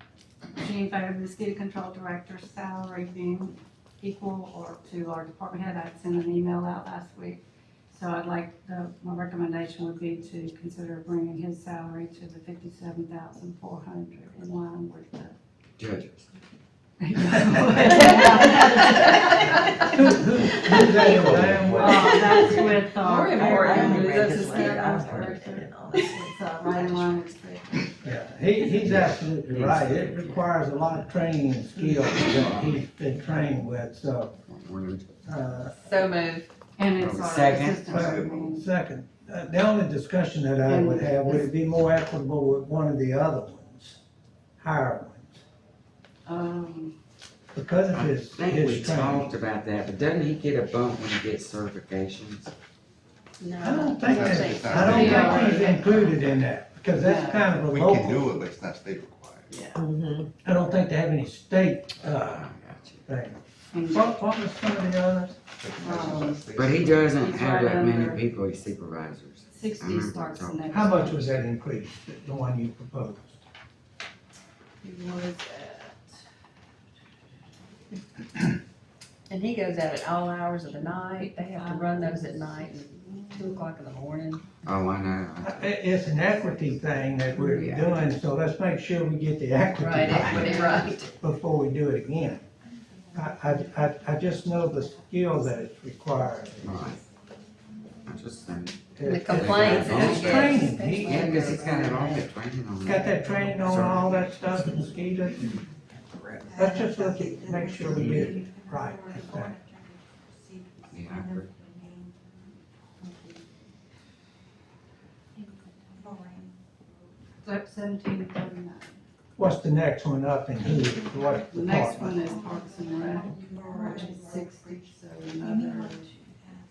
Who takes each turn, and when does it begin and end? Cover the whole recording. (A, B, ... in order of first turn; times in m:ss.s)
0:00.6-0:15.3 A
0:15.8-0:16.2 B
0:17.0-0:19.9 A
0:19.2-0:19.8 C
0:19.8-0:22.3 D
0:21.0-0:22.7 B
0:21.8-0:28.0 A
0:22.0-0:26.1 C
0:23.3-0:27.2 E
0:28.0-0:34.4 D
0:28.8-0:31.1 B
0:31.9-0:32.8 B
0:34.4-0:35.3 B
0:35.2-0:35.8 D
0:35.8-0:36.5 C
0:36.8-0:38.7 A
0:37.0-0:37.9 B
0:37.9-0:44.0 D
0:37.9-0:38.6 F
0:40.6-0:41.4 A
0:44.6-0:45.4 D
0:46.2-0:46.9 A
0:47.5-0:49.3 D
0:47.9-0:52.5 B
0:53.4-0:56.0 C
0:53.6-0:58.3 D
0:54.0-0:55.5 F
0:54.8-0:56.0 A
0:57.0-0:57.5 A
0:57.7-0:59.5 F
0:59.5-0:59.8 A
0:59.8-1:00.3 E
1:00.4-1:02.5 D
1:02.1-1:03.0 B
1:03.1-1:05.4 D
1:03.7-1:04.2 A
1:05.6-1:07.1 F
1:05.8-1:06.4 A
1:06.5-1:11.1 B
1:07.0-1:08.2 A
1:09.5-1:11.3 A
1:10.7-1:13.4 D
1:14.8-1:16.2 A
1:19.3-1:24.4 C
1:21.1-1:23.7 A
1:24.6-1:26.1 B
1:25.4-1:32.4 D
1:27.4-1:28.0 C
1:29.7-1:31.1 C
1:30.1-1:30.3 B
1:30.4-1:30.9 A
1:33.1-1:36.7 D
1:36.6-1:37.0 B
1:38.0-1:44.8 B
1:38.9-1:41.4 D
1:39.0-1:42.3 C
1:42.8-1:45.6 D
1:46.1-1:46.7 E
1:46.6-1:49.6 D
1:47.8-1:48.4 B
1:50.9-1:51.5 B
1:53.0-1:53.4 A
1:57.4-1:59.0 A
1:59.4-2:02.3 D
2:01.5-2:06.1 A